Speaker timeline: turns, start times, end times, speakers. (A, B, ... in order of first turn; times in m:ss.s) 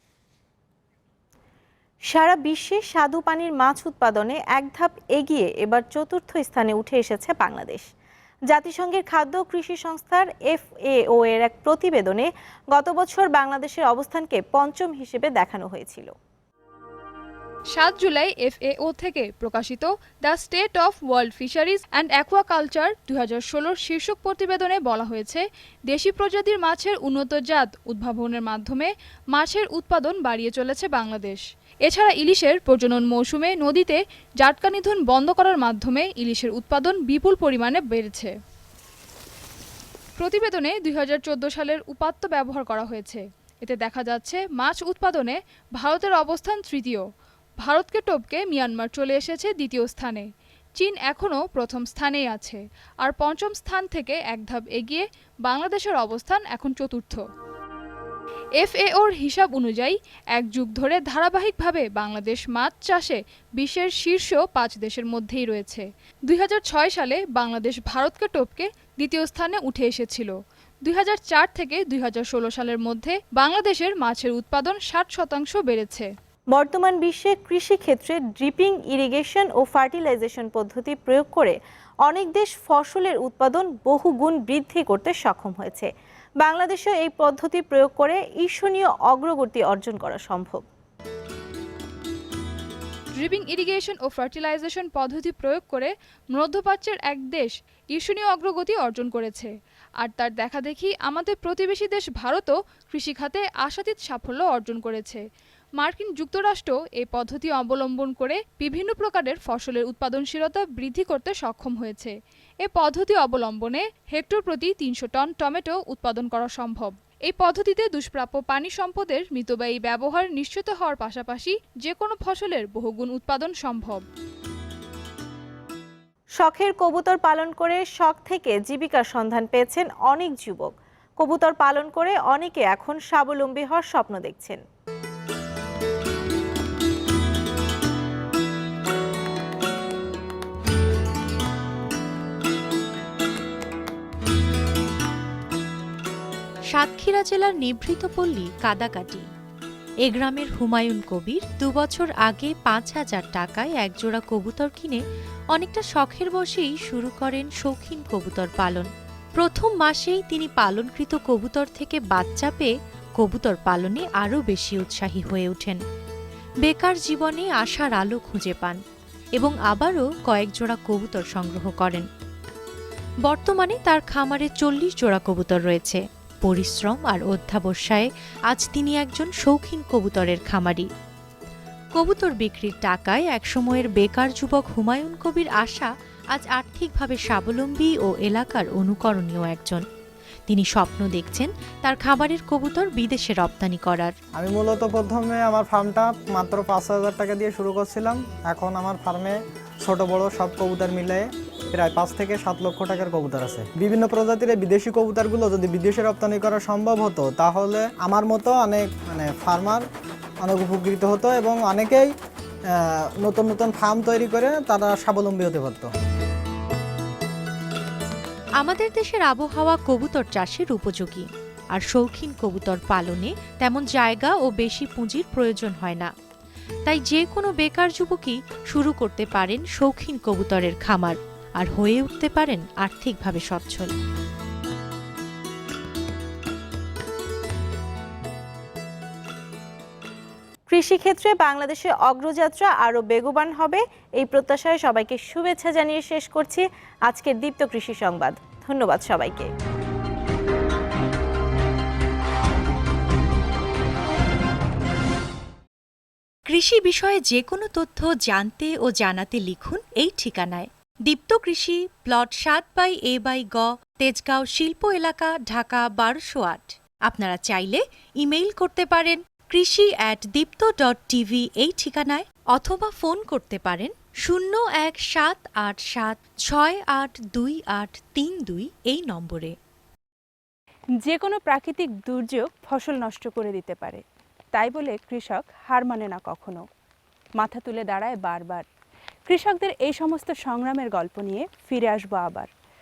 0:02.1-0:07.8 A
0:08.5-0:16.1 A
0:17.7-0:38.3 B
0:40.2-0:47.0 B
0:47.6-0:50.2 B
0:50.8-0:57.2 B
0:58.6-1:10.3 B
1:10.8-1:16.1 B
1:16.5-1:25.9 A
1:26.4-1:30.6 A
1:33.1-1:45.2 B
1:45.8-2:04.0 B
2:06.4-2:14.6 A
2:26.7-2:29.3 C
2:30.0-2:35.0 C
2:35.5-2:45.8 C
2:46.6-2:48.8 C
2:49.4-2:52.0 C
2:53.2-3:00.9 C
3:02.0-3:09.8 C
3:10.5-3:14.1 C
3:14.4-3:29.8 D
3:30.4-3:32.1 D
3:32.7-3:35.9 D
3:38.6-3:46.1 C
3:46.8-3:53.9 C
4:00.7-4:09.5 A
4:16.5-4:39.5 C
4:41.0-4:44.0 E
4:44.5-4:46.6 E
4:47.4-4:48.6 E
4:49.3-4:52.5 E